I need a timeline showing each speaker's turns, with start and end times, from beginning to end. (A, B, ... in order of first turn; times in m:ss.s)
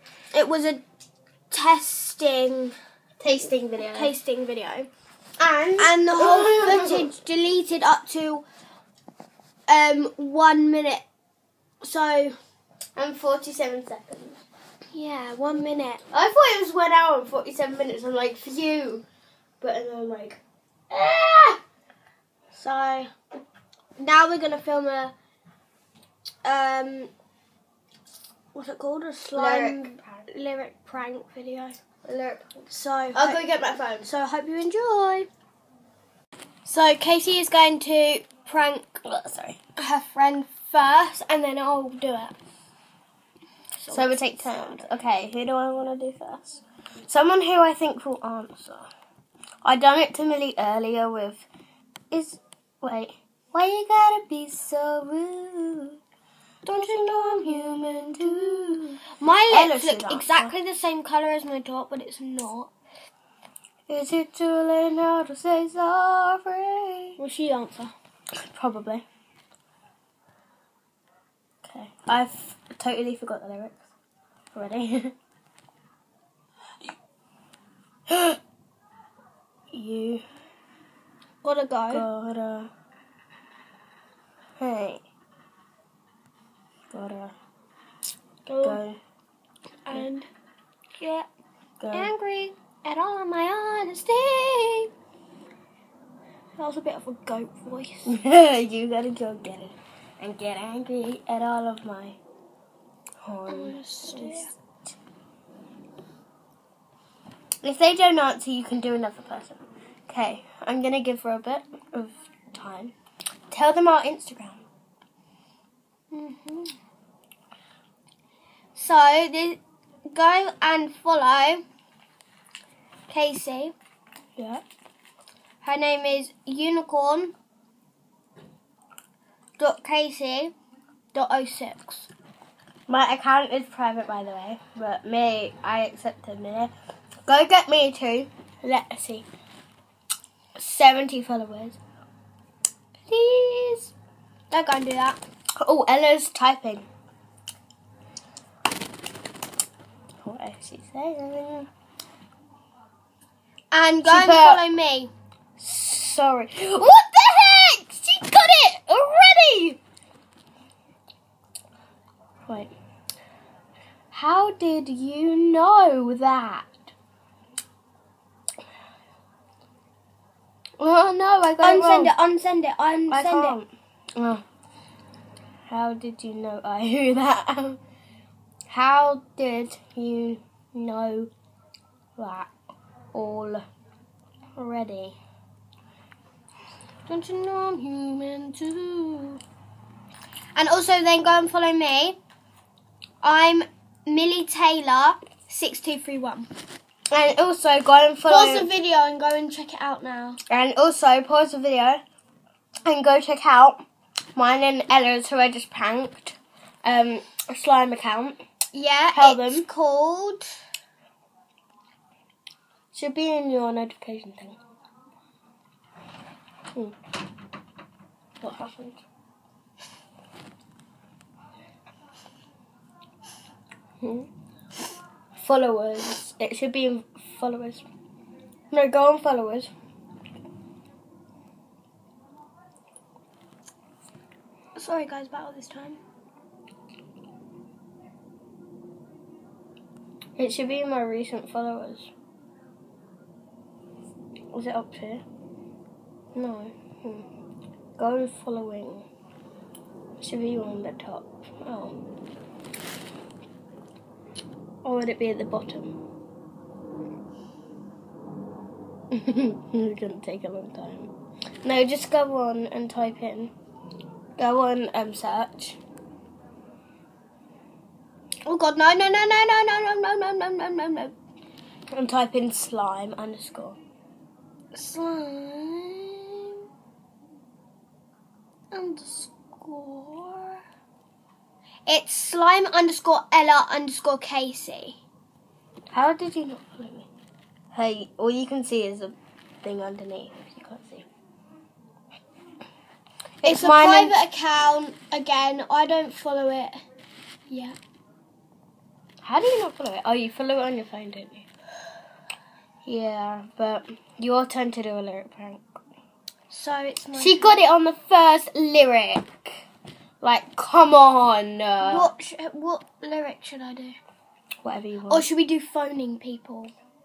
0:00.3-0:00.8 A
0:01.5-0:02.8 A
0:03.2-0:04.1 B
0:03.8-0:04.9 A
0:05.4-0:07.1 B
0:05.8-0:08.4 A
0:09.7-0:11.0 A
0:11.8-0:12.4 A
0:13.0-0:14.4 B
0:14.9-0:16.0 A
0:16.1-0:19.0 B
0:19.6-0:20.4 B
0:20.9-0:21.6 B
0:22.5-0:23.1 B
0:24.0-0:25.1 A
0:26.4-0:27.1 A
0:28.6-0:31.8 A
0:29.3-0:30.3 B
0:32.0-0:34.1 B
0:32.7-0:35.3 A
0:36.6-0:39.0 A
0:39.1-0:39.6 B
0:39.8-0:42.4 A
0:43.8-0:44.8 A
0:43.9-0:48.9 B
0:49.6-0:51.5 B
0:52.1-0:56.0 B
0:56.6-0:59.0 B
0:56.8-1:02.7 A
0:59.5-1:00.5 B
1:03.9-1:07.2 B
1:07.2-1:07.9 A
1:08.3-1:09.0 B
1:11.6-1:13.8 B
1:14.5-1:15.2 B
1:18.1-1:18.4 B
1:19.7-1:20.2 B
1:21.4-1:22.1 A
1:21.9-1:22.7 B
1:24.6-1:25.0 B
1:26.9-1:27.4 B
1:28.5-1:28.8 A
1:28.6-1:29.0 B
1:29.9-1:30.3 A
1:31.0-1:31.3 A
1:31.8-1:32.1 B
1:31.9-1:34.9 A
1:36.6-1:38.2 A
1:38.1-1:42.2 B
1:43.2-1:44.6 B
1:43.5-1:44.5 A
1:47.6-1:52.9 B
1:53.5-1:54.7 B
1:56.1-1:56.8 A
1:58.8-2:01.6 A
2:03.1-2:03.7 A
2:04.4-2:04.6 B
2:05.6-2:07.3 A
2:09.6-2:10.5 A
2:11.1-2:12.1 A
2:12.9-2:16.7 B
2:17.3-2:19.3 B
2:20.6-2:21.8 B
2:23.1-2:23.9 B
2:24.5-2:25.2 A
2:25.6-2:26.9 B
2:30.2-2:31.7 B
2:33.7-2:35.1 A
2:34.0-2:34.6 B
2:35.6-2:39.8 B
2:42.4-2:42.7 B
2:44.1-2:46.9 B
2:50.8-2:52.1 B
2:51.6-2:53.6 A
2:53.1-2:54.4 B
2:55.7-2:57.8 B
2:58.7-3:01.3 B
3:02.2-3:02.5 B
3:03.1-3:03.7 B
3:04.6-3:05.2 B
3:07.1-3:09.4 A
3:10.6-3:12.2 A
3:13.2-3:16.5 A
3:17.1-3:18.7 B
3:18.3-3:20.4 A
3:20.5-3:22.0 B
3:22.8-3:23.8 B
3:24.4-3:28.4 B
3:28.7-3:30.6 A
3:29.1-3:29.7 B
3:32.9-3:34.6 B
3:38.4-3:39.0 B
3:44.0-3:44.3 B
3:45.4-3:47.9 B
3:48.7-3:49.7 B
3:54.8-3:56.0 A
4:00.4-4:02.1 B
4:04.5-4:05.2 B
4:06.4-4:07.3 B
4:08.0-4:09.1 B
4:10.2-4:12.0 B
4:14.8-4:15.9 B
4:19.1-4:21.1 B
4:21.6-4:23.5 B
4:24.4-4:25.8 B
4:28.4-4:31.1 A
4:31.9-4:33.8 B
4:34.7-4:36.6 A
4:38.7-4:40.6 A
4:41.9-4:45.0 A
4:45.9-4:47.1 B
4:47.7-4:51.1 B
4:53.4-4:54.2 B
4:53.4-4:56.8 A
4:57.5-4:57.8 A
4:59.2-5:01.5 B
5:02.8-5:05.6 B
5:06.5-5:07.7 A
5:07.2-5:09.6 B
5:10.2-5:12.1 B
5:11.8-5:14.0 A
5:14.6-5:15.3 B
5:15.1-5:16.7 A